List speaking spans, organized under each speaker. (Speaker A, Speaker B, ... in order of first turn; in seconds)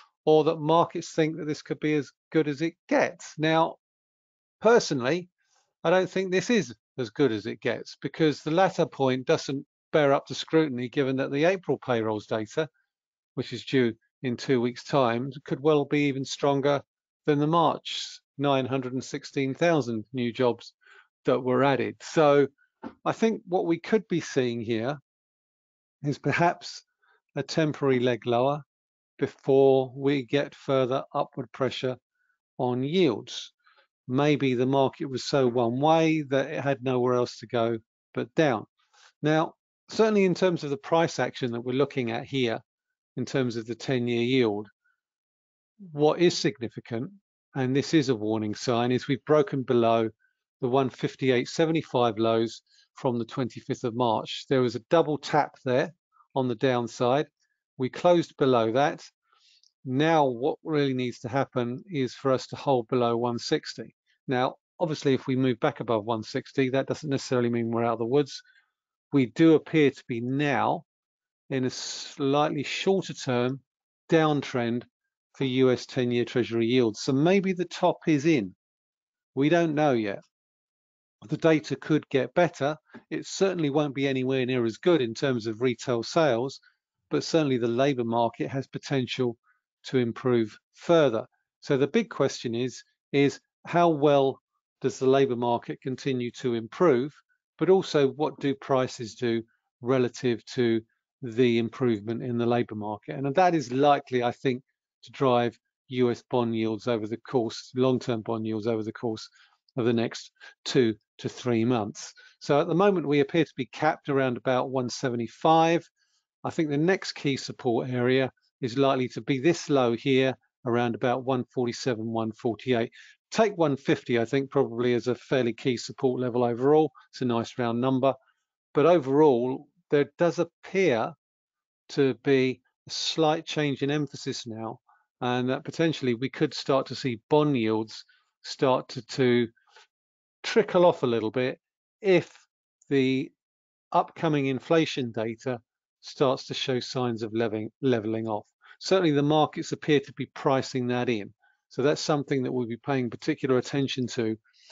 Speaker A: 0.2-3.8, 4.6-5.3, 5.8-12.7, 13.3-22.5, 23.0-25.0, 26.0-26.8, 27.3-28.6, 29.2-32.0, 32.6-33.5, 34.1-38.7, 39.2-42.6, 43.1-44.7, 45.8-59.1, 59.8-68.4, 69.1-70.8, 71.5-78.5, 79.3-80.2, 81.2-115.9, 116.4-128.1, 128.7-131.1, 131.9-139.5, 140.4-143.3, 143.9-154.4